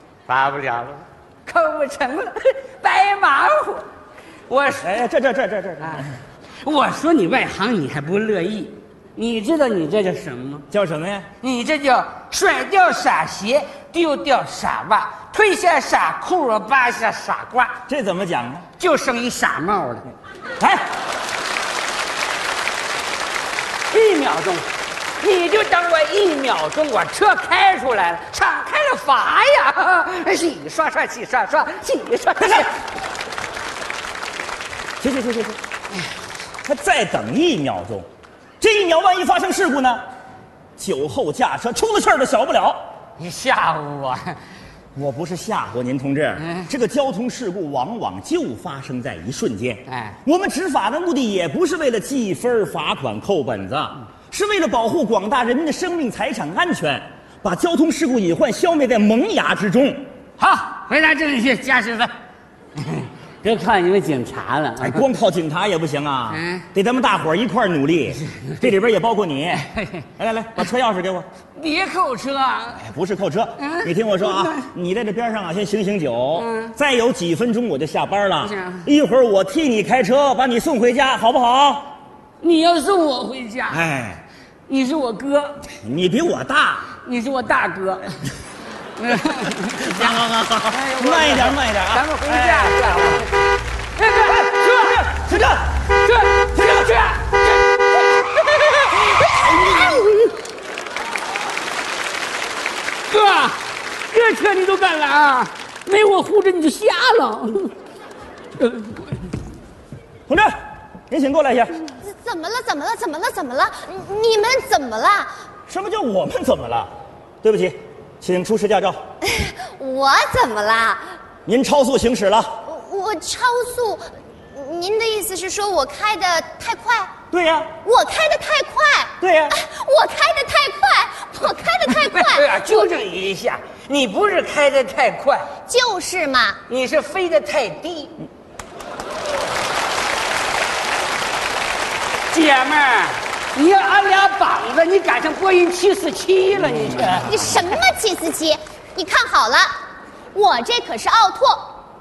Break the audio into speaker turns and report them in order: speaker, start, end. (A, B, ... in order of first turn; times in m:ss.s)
0:00.3-0:03.9 A
0:04.5-0:05.0 A
0:04.8-0:06.1 B
0:05.8-0:06.1 A
0:06.6-0:10.6 A
0:10.7-0:11.3 B
0:11.4-0:17.8 A
0:17.9-0:18.7 B
0:18.8-0:20.1 A
0:20.6-0:20.9 B
0:23.9-0:24.7 A
0:25.2-0:32.8 A
0:35.0-0:35.6 B
0:36.6-0:38.1 B
0:38.6-0:40.0 B
0:40.8-0:42.8 B
0:43.2-0:44.4 A
0:45.0-1:00.1 B
0:46.4-0:46.7 A
0:49.9-0:50.2 A
1:00.4-1:02.1 A
1:02.8-1:05.0 A
1:04.8-1:11.3 B
1:06.4-1:06.6 A
1:09.7-1:10.0 A
1:11.6-1:12.8 A
1:12.8-1:21.8 B
1:13.6-1:14.7 A
1:16.4-1:16.8 A
1:18.4-1:18.9 A
1:22.4-1:23.8 A
1:23.7-1:24.2 B
1:24.7-1:25.6 A
1:25.7-1:26.9 B
1:27.0-1:28.2 A
1:29.0-1:33.4 A
1:29.7-1:32.9 B
1:34.0-1:35.1 A
1:34.3-1:35.7 B
1:35.9-1:40.3 A
1:43.1-1:47.7 A
1:48.6-1:49.0 A
1:50.3-1:50.5 B
1:51.1-1:51.8 B
1:51.9-1:55.3 C
1:55.7-1:56.9 B
1:57.4-1:59.0 B
1:59.2-2:01.2 C
2:01.5-2:02.6 B
2:02.6-2:07.1 C
2:07.3-2:07.7 B
2:07.8-2:12.8 C
2:09.2-2:09.6 B
2:11.9-2:15.5 A
2:15.7-2:16.6 C
2:16.7-2:18.2 A
2:22.3-2:27.3 A
2:27.3-2:29.7 C
2:30.3-2:31.7 C